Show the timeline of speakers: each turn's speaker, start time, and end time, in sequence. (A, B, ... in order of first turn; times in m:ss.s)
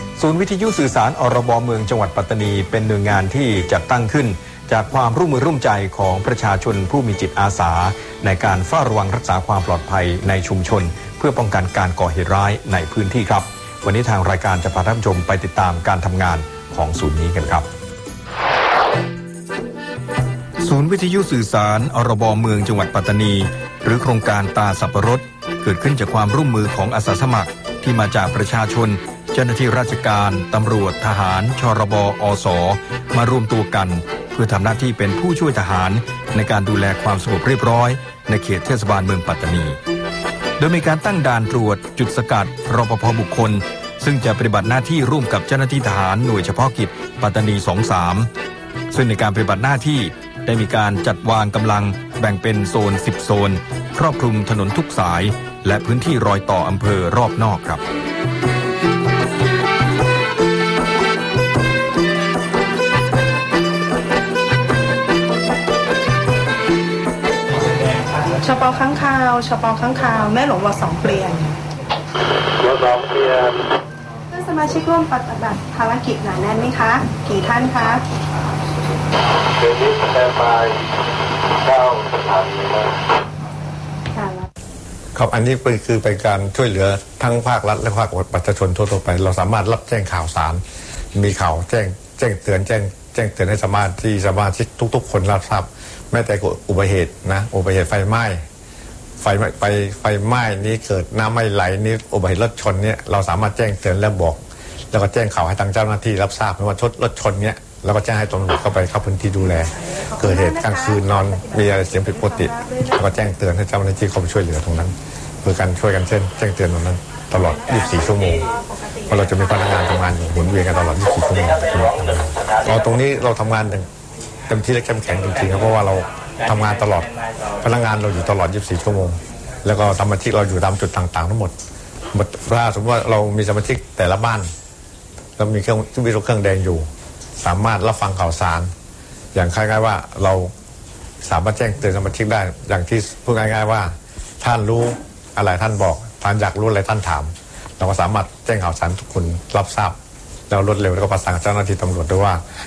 0:00.2-0:17.7 A
0:20.6-0:39.8 A
0:40.6-0:48.3 A
0:48.9-0:57.8 A
1:08.3-1:11.6 B
1:12.6-1:13.6 C
1:14.3-1:18.0 B
1:19.6-1:20.9 C
1:21.5-1:23.0 C
1:24.1-1:24.5 B
1:25.1-1:30.6 D
1:31.1-1:38.4 D
1:39.2-1:58.5 D
1:50.0-1:53.0 B
1:58.0-1:59.2 B
1:59.0-2:03.9 D
2:04.5-2:11.5 D
2:12.1-2:14.5 D
2:15.4-2:16.9 D
2:17.4-2:18.7 D
2:19.3-2:20.5 D
2:21.2-2:30.0 D
2:30.5-2:32.4 D